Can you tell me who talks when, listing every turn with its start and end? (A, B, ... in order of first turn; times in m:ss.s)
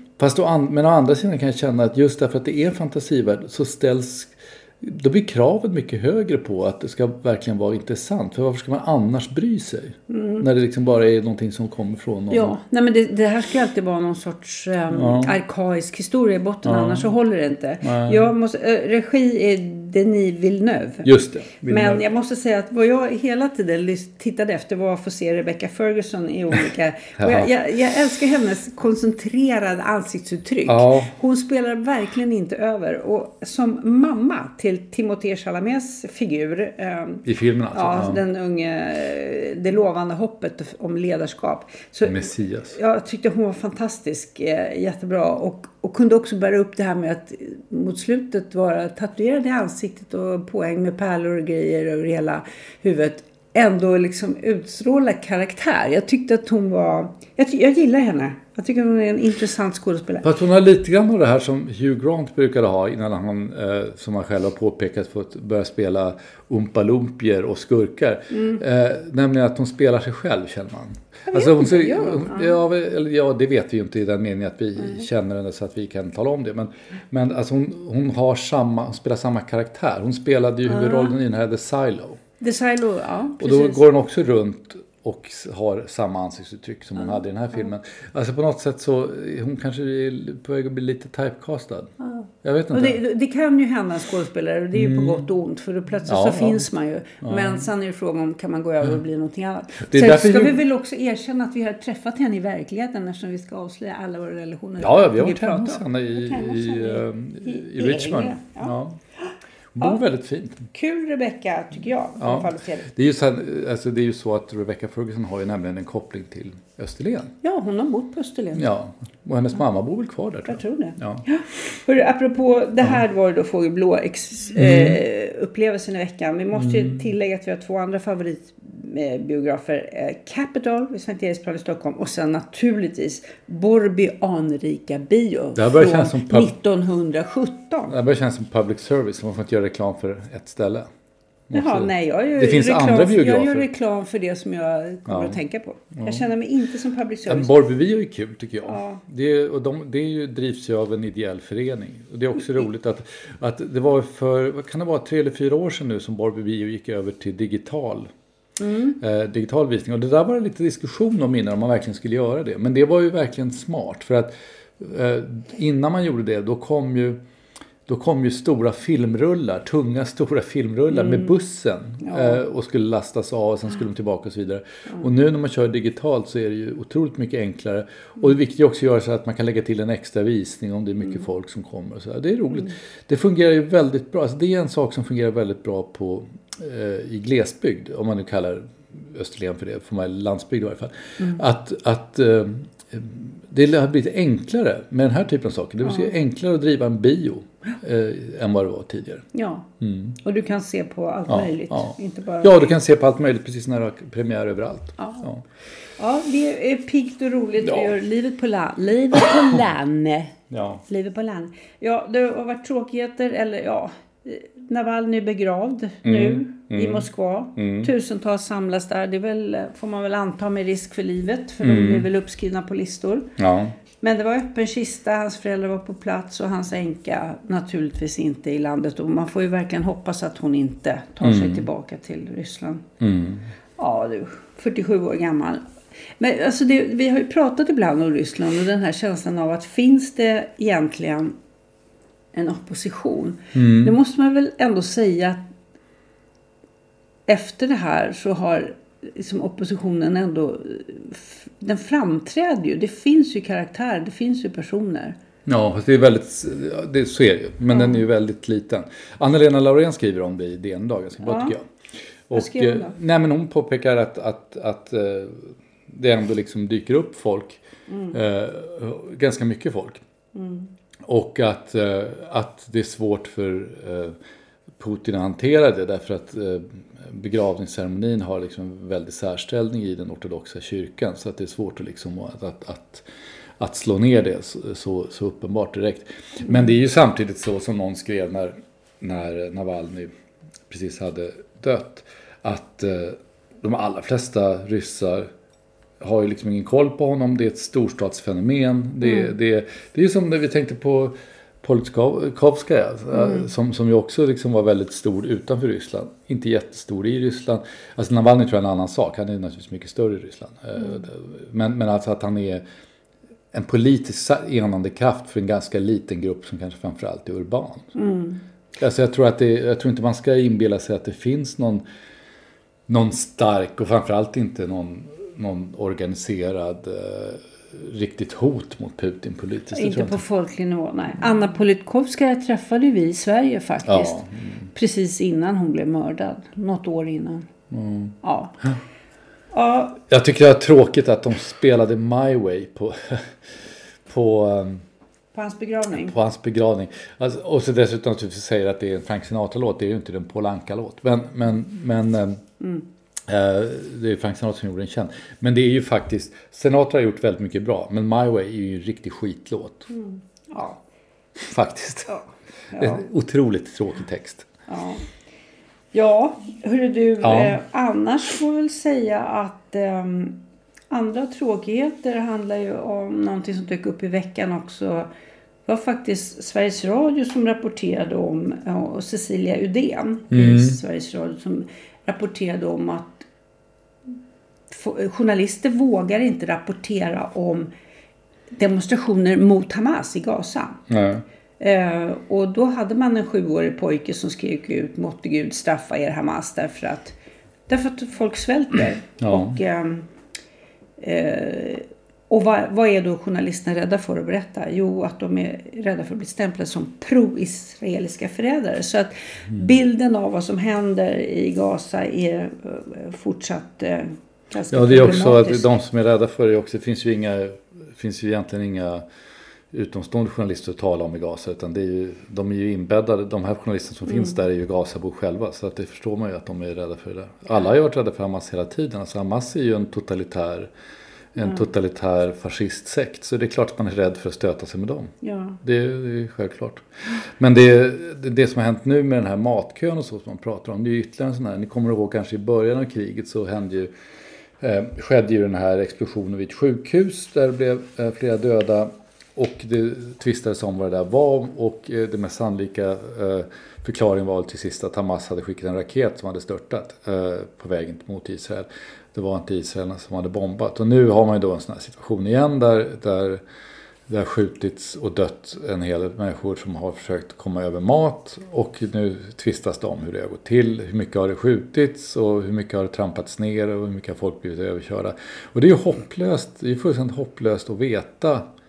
0:00.2-0:12.6 A
0:10.1-0:10.5 B
0:12.3-0:21.1 B
0:14.9-0:15.4 A
0:16.6-0:17.1 A
0:17.8-0:18.3 A
0:21.0-0:22.0 A
0:21.6-1:00.3 B
0:27.2-0:27.5 A
0:30.7-0:31.1 A
0:37.2-0:38.2 A
0:42.0-0:42.8 A
1:00.2-1:22.2 A
1:08.3-1:08.6 B
1:11.3-1:12.6 B
1:20.7-1:21.1 B
1:22.4-1:23.8 B
1:23.4-1:31.9 A
1:32.0-1:50.0 B
1:32.4-1:33.0 A
1:34.7-1:35.2 A
1:36.1-1:36.7 A
1:37.2-1:37.6 A
1:39.8-1:40.6 A
1:44.8-1:49.0 A
1:49.8-1:50.7 A
1:50.7-1:52.9 B
1:52.2-1:57.3 A
1:57.4-1:58.7 B
1:58.5-2:01.2 A
2:00.5-2:18.0 B
2:04.6-2:05.0 A
2:06.5-2:07.1 A
2:15.6-2:16.5 A
2:17.9-2:20.9 A
2:21.5-2:23.7 A
2:21.5-2:27.5 B
2:25.1-2:25.4 A
2:26.0-2:26.2 A
2:27.3-2:38.1 A
2:28.7-2:29.0 B
2:38.6-2:39.0 B
2:39.0-2:47.2 A
2:47.9-3:19.2 A
2:50.9-2:51.3 B
2:52.0-2:52.4 B
3:15.8-3:16.1 B
3:19.3-3:19.7 B
3:19.8-3:20.2 A
3:20.2-3:22.7 B
3:21.3-3:25.4 A
3:25.0-3:25.3 B
3:26.0-3:43.3 B
3:27.6-3:27.9 A
3:30.5-3:30.8 A
3:36.0-3:37.9 A
3:41.6-3:42.1 A
3:43.4-3:43.8 A
3:44.0-3:52.9 B
3:51.2-3:51.7 A
3:53.0-3:53.5 A
3:53.8-3:55.6 B
3:56.2-4:01.4 B
4:02.3-4:05.4 B
4:03.5-4:04.0 A
4:07.3-4:15.2 B
4:15.5-4:21.6 A
4:17.7-4:18.0 B
4:21.2-4:21.6 B
4:22.3-4:30.0 A
4:22.3-4:23.0 B
4:27.9-4:28.2 B
4:30.4-4:30.7 B
4:31.1-4:34.2 A
4:34.8-4:43.1 A
4:43.6-4:50.1 A
4:50.7-4:55.3 A
4:56.0-5:12.6 A
4:59.1-4:59.3 B
5:03.2-5:03.5 B
5:13.5-5:17.9 A
5:18.0-5:18.4 B
5:18.8-5:21.8 A
5:22.9-5:30.2 A
5:29.7-5:34.2 B
5:33.8-5:34.7 A
5:34.7-5:37.5 B
5:37.7-5:38.8 A
5:38.2-5:38.6 B
5:39.5-5:40.0 B
5:40.1-5:44.8 A
5:45.3-5:46.2 B
5:45.9-5:52.4 A
5:52.6-5:52.8 B
5:53.3-5:59.9 A
5:59.9-6:00.8 B
6:01.4-6:02.2 A
6:02.1-6:03.0 B
6:02.8-6:04.5 A
6:04.7-6:05.0 B
6:05.9-6:15.1 B
6:07.2-6:07.6 A
6:15.7-6:23.3 B
6:20.3-6:20.8 A
6:24.7-6:27.7 B
6:28.5-6:30.9 B
6:30.9-6:31.2 A
6:31.6-6:37.2 B
6:37.7-6:40.1 B
6:39.2-6:39.6 A
6:41.0-6:55.7 B
6:49.5-6:49.8 A
6:54.7-6:59.0 A
6:59.7-7:10.7 A
7:11.4-7:23.9 A
7:11.4-7:11.6 B
7:15.2-7:15.6 B
7:24.6-7:43.4 A
7:44.1-7:58.5 A